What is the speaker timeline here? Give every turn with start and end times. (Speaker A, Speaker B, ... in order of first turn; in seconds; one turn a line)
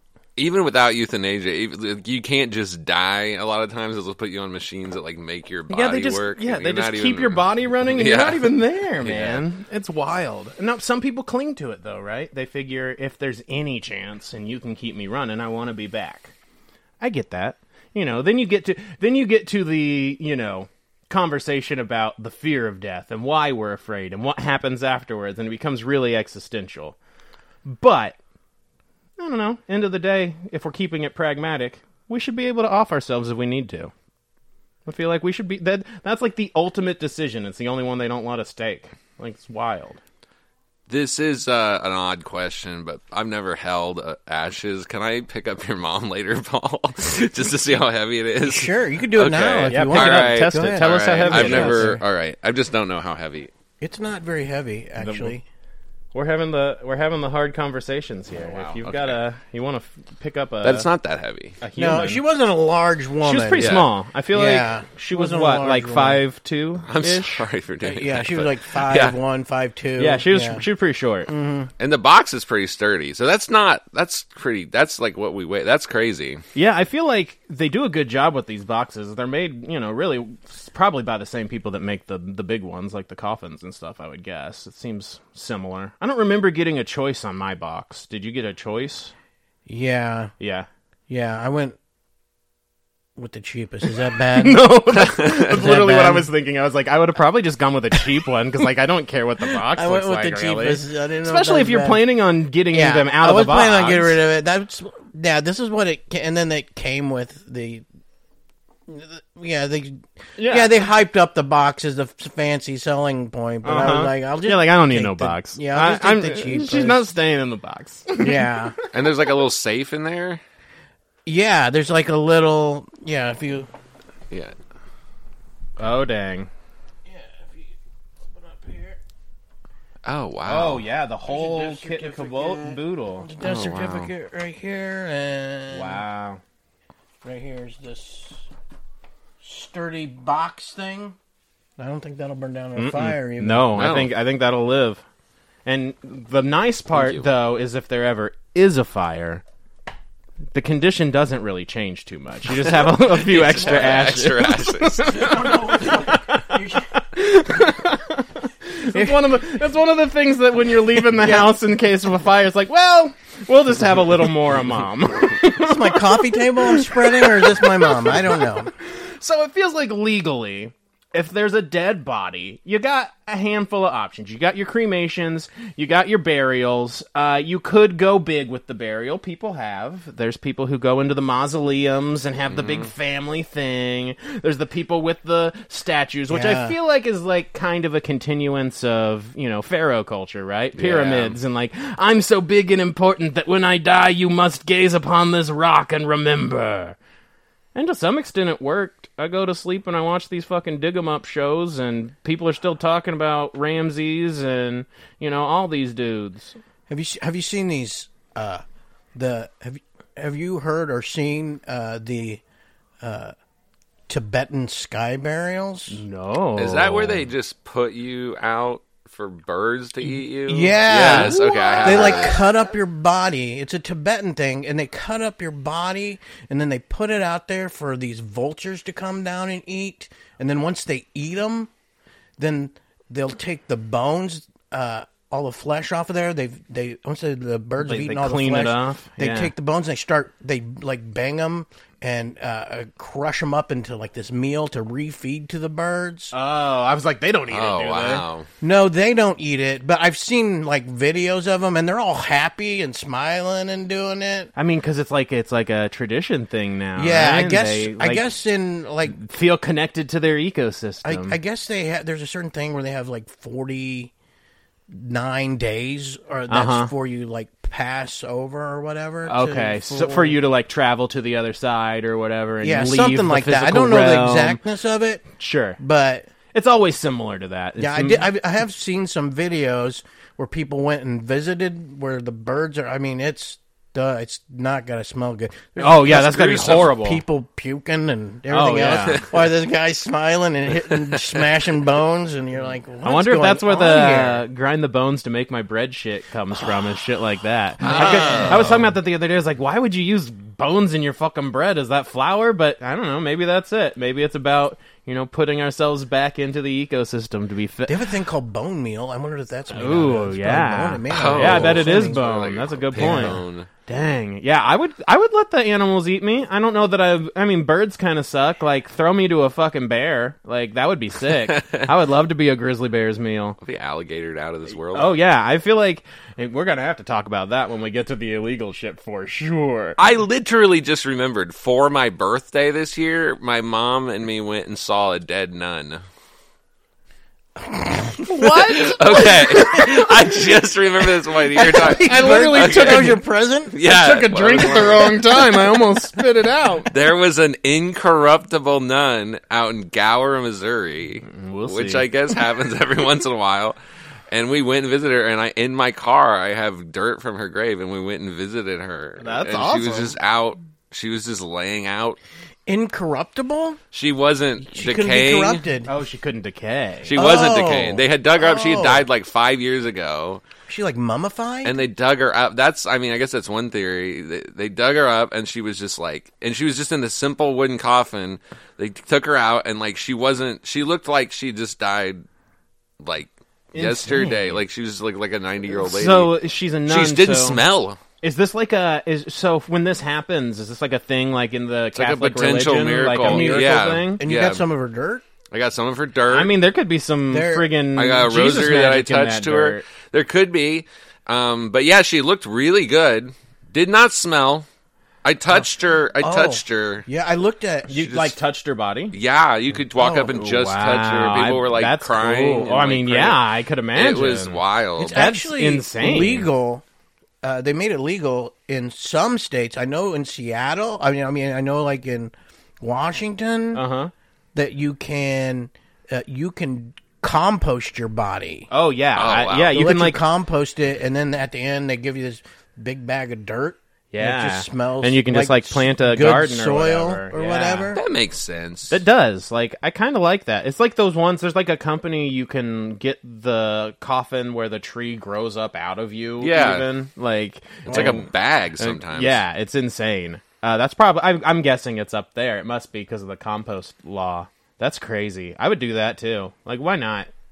Speaker A: 0.4-9.4
Speaker B: 5.7-16.3
Speaker B: 17.0-27.0
Speaker B: 27.6-28.2
Speaker B: 29.2-33.9
Speaker B: 34.9-40.0
Speaker A: 40.9-53.5
Speaker C: 48.4-52.0
Speaker B: 49.7-52.0
Speaker C: 53.8-55.4
Speaker B: 55.0-55.3
Speaker B: 56.1-60.9
Speaker A: 58.4-59.2
Speaker A: 60.6-61.6
Speaker B: 61.6-62.2
Speaker C: 61.8-63.7
Speaker B: 63.2-67.4
Speaker A: 63.6-63.9
Speaker C: 64.3-66.2
Speaker A: 66.8-69.2
Speaker C: 67.8-70.6
Speaker B: 70.0-71.3
Speaker C: 71.3-71.7
Speaker A: 71.8-76.4
Speaker B: 76.5-89.1
Speaker C: 89.7-90.3
Speaker B: 90.4-90.7
Speaker C: 91.1-91.8
Speaker C: 93.2-96.3
Speaker B: 94.3-104.2
Speaker C: 99.7-102.0
Speaker C: 102.7-107.8
Speaker C: 108.9-117.0
Speaker B: 110.4-110.7
Speaker B: 113.6-118.6
Speaker C: 118.2-118.7
Speaker A: 118.9-120.4
Speaker C: 121.2-123.7
Speaker B: 125.8-126.5
Speaker C: 127.0-129.0
Speaker A: 130.0-130.8
Speaker B: 130.4-133.3
Speaker C: 131.3-136.0
Speaker A: 133.4-134.1
Speaker B: 135.7-136.4
Speaker C: 137.2-138.5
Speaker C: 139.4-141.2
Speaker C: 141.8-143.8
Speaker B: 142.8-145.0
Speaker A: 143.7-144.1
Speaker B: 145.7-149.4
Speaker A: 146.9-147.2
Speaker B: 150.5-168.5
Speaker A: 152.5-155.5
Speaker C: 155.1-156.9
Speaker C: 158.9-159.3
Speaker C: 161.1-161.5
Speaker C: 165.5-168.7
Speaker B: 169.2-197.0
Speaker A: 182.5-182.9
Speaker C: 186.3-186.8
Speaker A: 190.8-191.4
Speaker B: 197.7-206.6
Speaker C: 206.9-208.6
Speaker C: 209.1-212.4
Speaker C: 213.0-213.3
Speaker C: 214.1-216.0
Speaker B: 215.9-217.3
Speaker A: 216.6-222.4
Speaker C: 220.5-231.7
Speaker B: 220.9-222.3
Speaker C: 232.4-246.3
Speaker B: 237.8-239.5
Speaker B: 246.3-248.2
Speaker A: 247.5-248.5
Speaker C: 248.6-254.5
Speaker B: 254.6-258.2
Speaker C: 256.9-259.1
Speaker B: 259.1-261.4
Speaker C: 261.0-264.1
Speaker C: 264.9-270.4
Speaker B: 266.5-266.9
Speaker B: 269.2-274.6
Speaker C: 272.6-275.2
Speaker B: 275.4-275.8
Speaker C: 275.8-276.3
Speaker B: 276.5-278.2
Speaker C: 277.8-294.4
Speaker B: 285.8-287.2
Speaker A: 286.1-286.9
Speaker B: 288.5-289.3
Speaker B: 293.0-308.0
Speaker C: 297.8-298.7
Speaker A: 297.8-298.8
Speaker C: 307.9-312.2
Speaker B: 309.7-323.6
Speaker A: 311.1-313.7
Speaker C: 312.9-313.4
Speaker A: 321.5-321.9
Speaker A: 323.6-325.1
Speaker B: 324.9-330.0
Speaker A: 330.0-336.0
Speaker C: 337.6-338.5
Speaker B: 338.2-339.9
Speaker A: 338.5-345.8
Speaker C: 339.1-340.0
Speaker C: 341.5-343.7
Speaker B: 341.8-343.2
Speaker B: 343.8-346.9
Speaker A: 346.9-353.8
Speaker B: 351.2-352.1
Speaker A: 354.3-362.2
Speaker B: 359.2-360.1
Speaker C: 362.7-363.8
Speaker A: 363.9-365.6
Speaker C: 364.6-365.9
Speaker B: 365.9-367.1
Speaker A: 367.1-370.4
Speaker C: 367.1-369.1
Speaker C: 370.7-371.8
Speaker A: 371.6-382.2
Speaker A: 383.0-386.3
Speaker B: 383.7-384.6
Speaker B: 385.7-387.6
Speaker A: 386.9-388.0
Speaker B: 388.2-394.2
Speaker A: 391.9-394.6
Speaker C: 393.2-395.2
Speaker A: 395.5-396.5
Speaker B: 396.3-399.8
Speaker C: 397.3-397.7
Speaker A: 397.9-404.6
Speaker A: 405.2-407.1
Speaker C: 406.2-408.3
Speaker B: 407.9-409.1
Speaker A: 409.1-413.4
Speaker C: 409.9-410.3
Speaker B: 410.3-416.5
Speaker A: 413.9-415.3
Speaker C: 415.0-416.8
Speaker C: 417.4-423.8
Speaker B: 423.7-424.1
Speaker C: 424.5-428.7
Speaker B: 428.7-430.2
Speaker A: 429.1-429.7
Speaker C: 429.7-438.0
Speaker B: 434.1-437.9
Speaker A: 437.9-439.0
Speaker B: 438.9-448.3
Speaker A: 446.4-446.9
Speaker A: 447.9-449.4
Speaker C: 447.9-448.2
Speaker B: 448.8-457.3